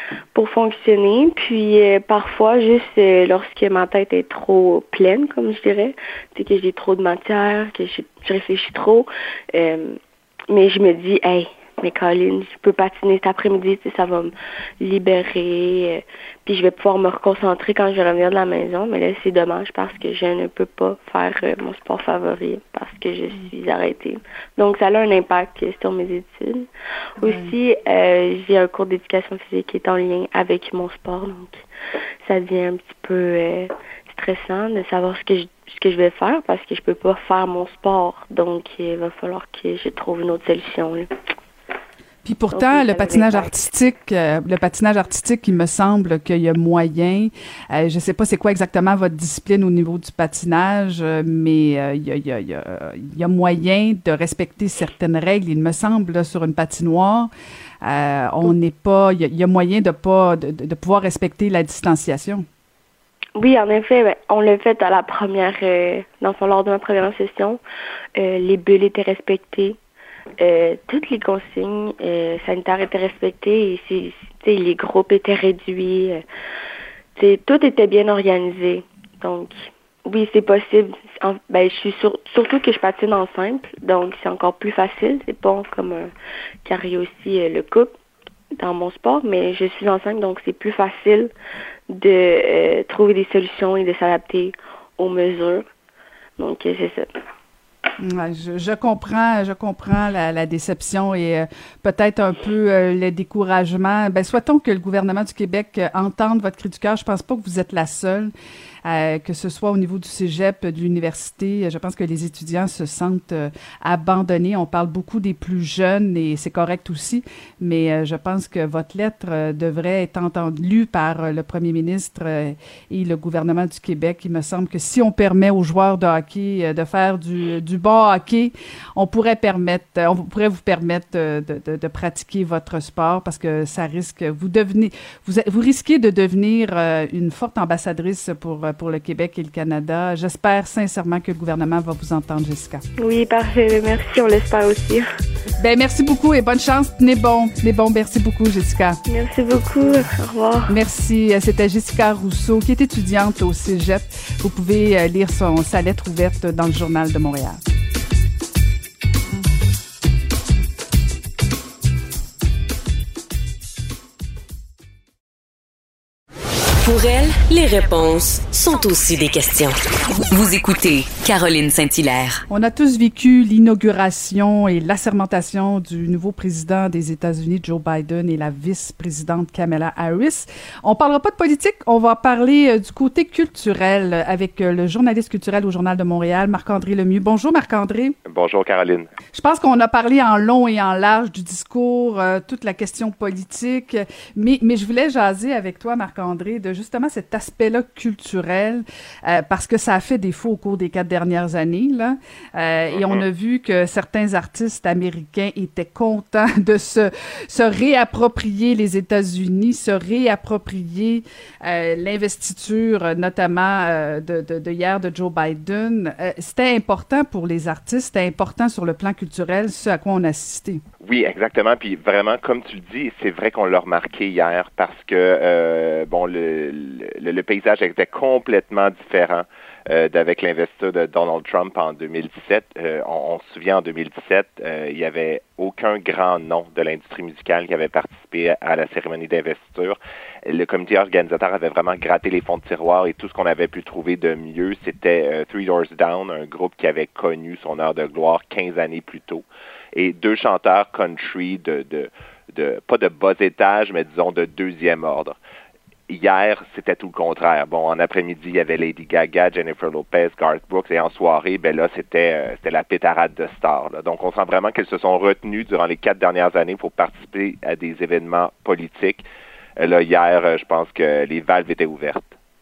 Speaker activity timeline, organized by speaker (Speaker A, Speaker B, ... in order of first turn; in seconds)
Speaker A: 0.3-10.0, 10.5-31.7, 32.2-41.1, 42.5-43.5, 63.4-67.6, 68.2-69.8, 70.4-76.2, 77.2-86.1, 86.6-87.9, 88.6-91.3, 91.9-95.7, 96.4-97.1, 143.0-145.1, 149.1-150.7
Speaker B: 27.2-27.5, 42.2-57.3, 57.8-62.5, 98.0-108.3, 108.8-142.8, 145.6-149.0, 150.7-157.6, 172.5-188.2, 189.3-220.8
Speaker C: 166.8-172.4
Speaker D: 188.2-189.1, 202.9-203.2, 221.0-255.4, 256.1-269.2, 269.8-272.4